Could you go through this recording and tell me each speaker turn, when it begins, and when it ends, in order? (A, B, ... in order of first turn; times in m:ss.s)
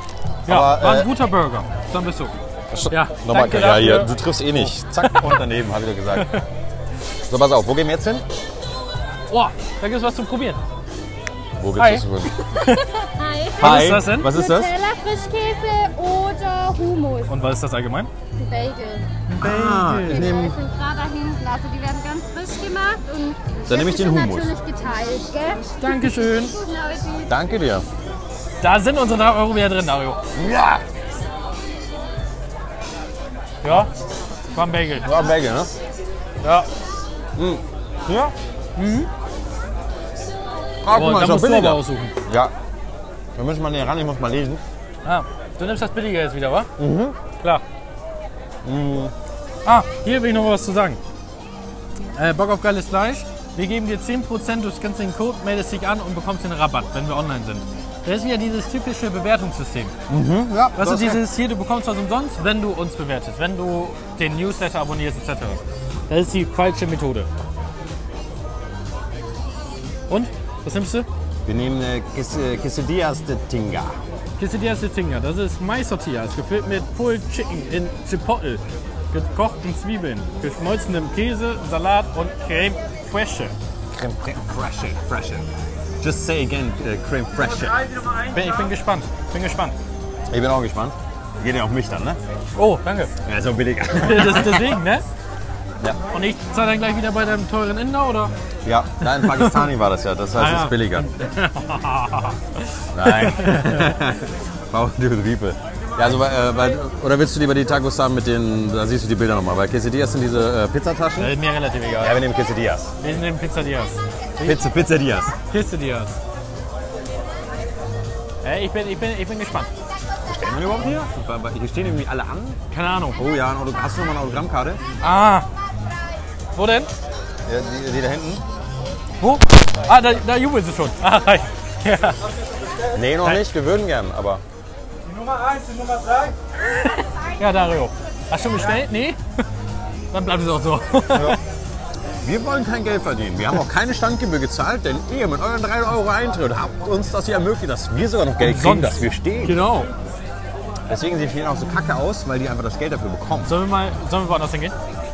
0:00.4-0:01.1 A
0:00.4-0:02.3 B
0:02.7-0:06.4 A
0:02.9-0:05.4 B
0:06.1-0:06.4 B
0:07.3-0:08.2 A
0:09.3-0:10.6 B
0:11.6-0:12.4 A
0:11.8-0:13.0 B
0:12.9-0:17.3 C
0:13.6-0:14.3 B
0:13.6-0:14.7 A
0:17.3-0:18.1 B
0:18.4-0:19.1 C
0:19.3-0:20.3 B
0:19.4-0:20.6 A
0:20.0-0:27.3 C
0:23.7-0:24.5 A
0:25.8-0:26.6 B
0:27.3-0:27.8 A
0:28.6-0:30.2 B
0:30.3-0:30.8 A
0:33.6-0:33.9 B
0:34.5-0:35.1 B
0:35.0-0:35.8 A
0:36.4-0:36.7 B
0:37.4-0:38.3 A
0:38.8-0:39.1 B
0:40.8-0:42.5 A
0:40.9-0:42.2 B
0:43.3-0:44.6 A
0:45.0-0:46.7 B
0:46.8-0:47.2 A
0:48.6-0:49.1 A
0:49.6-0:51.0 B
0:52.1-0:59.9 B
1:00.1-1:01.2 A
1:00.8-1:07.3 B
1:10.1-1:11.1 B
1:11.4-1:14.0 A
1:14.4-1:23.5 B
1:23.9-1:25.5 A
1:26.0-1:28.1 A
1:28.2-1:29.7 B
1:30.3-1:32.2 A
1:32.5-1:33.1 B
1:33.2-1:34.8 A
1:34.0-1:35.0 B
1:36.1-1:38.3 B
1:38.6-1:41.1 A
1:39.0-1:39.7 B
1:40.4-1:43.9 B
1:42.9-1:51.4 A
1:51.2-1:52.2 B
1:52.0-1:53.0 A
1:53.0-1:54.6 B
1:54.4-1:55.4 A
1:55.5-1:56.2 B
1:58.4-1:59.7 B
2:00.2-2:02.6 A
2:02.7-2:03.2 B
2:03.2-2:04.8 A
2:05.0-2:05.4 B
2:06.5-2:06.9 B
2:07.4-2:08.4 A
2:09.2-2:12.2 B
2:12.9-2:14.4 A
2:13.1-2:13.4 B
2:15.3-2:19.2 B
2:20.1-2:21.4 B
2:21.1-2:21.4 A
2:22.2-2:29.7 A
2:28.4-2:29.9 B
2:30.9-2:33.6 A
2:33.4-2:34.7 B